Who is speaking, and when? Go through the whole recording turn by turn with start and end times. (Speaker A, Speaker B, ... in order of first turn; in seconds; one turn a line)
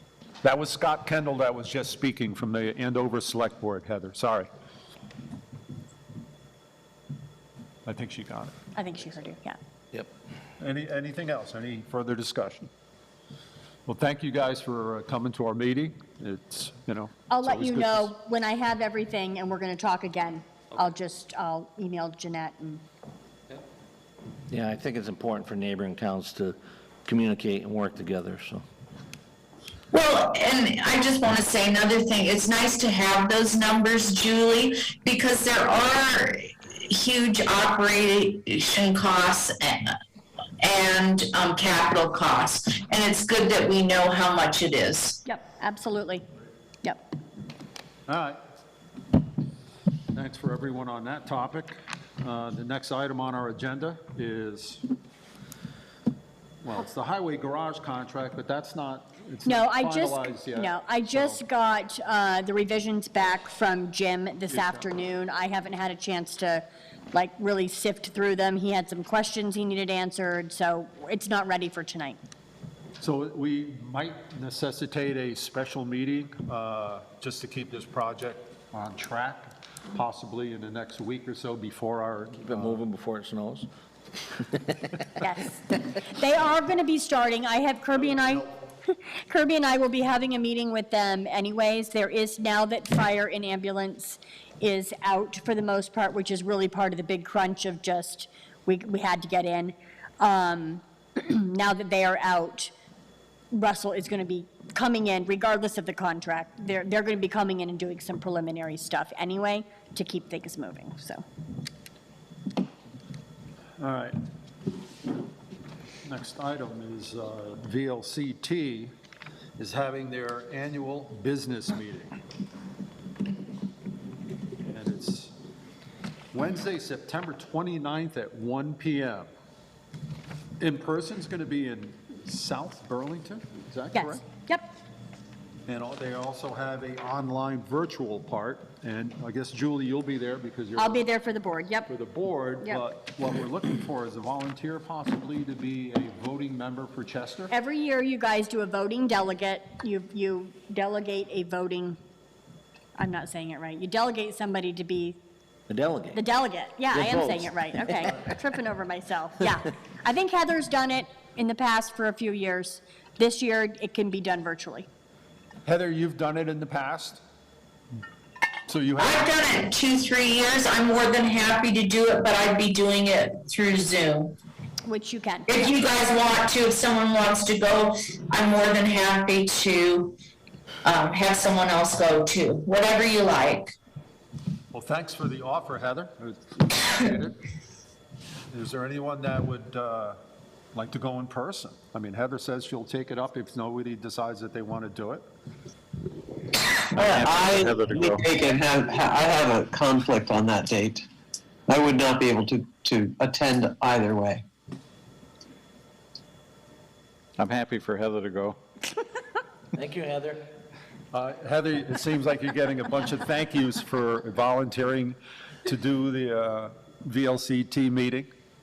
Speaker A: 0.4-4.5
Speaker A: 7.8-8.6
Speaker B: 8.7-9.6
Speaker A: 10.6-12.7
Speaker A: 13.8-18.1
Speaker B: 17.3-22.8
Speaker C: 24.5-28.6
Speaker D: 29.9-40.0
Speaker D: 40.6-45.2
Speaker B: 45.2-46.2
Speaker A: 48.1-48.4
Speaker A: 50.1-54.8
Speaker A: 56.6-61.4
Speaker B: 59.5-72.2
Speaker A: 64.5-64.8
Speaker A: 73.0-82.8
Speaker C: 82.4-83.7
Speaker C: 84.4-85.0
Speaker B: 85.2-102.7
Speaker B: 103.5-111.2
Speaker A: 113.8-114.2
Speaker A: 116.0-118.9
Speaker A: 119.6-122.2
Speaker A: 124.6-125.3
Speaker A: 126.3-129.3
Speaker A: 130.6-134.2
Speaker B: 133.9-134.7
Speaker A: 135.7-141.0
Speaker B: 140.8-141.9
Speaker A: 141.9-147.5
Speaker B: 147.5-152.0
Speaker B: 153.0-155.2
Speaker C: 155.7-156.2
Speaker B: 156.1-164.9
Speaker C: 156.9-158.2
Speaker A: 165.7-167.2
Speaker A: 168.7-169.4
Speaker D: 169.0-174.3
Speaker B: 174.8-175.7
Speaker D: 175.5-180.2
Speaker D: 180.8-183.7
Speaker A: 184.7-187.4
Speaker A: 188.5-190.2
Speaker A: 190.7-195.2
Speaker E: 196.9-198.3
Speaker F: 196.9-201.0
Speaker F: 201.7-204.4
Speaker E: 207.4-208.6
Speaker C: 209.7-210.4
Speaker A: 211.1-218.3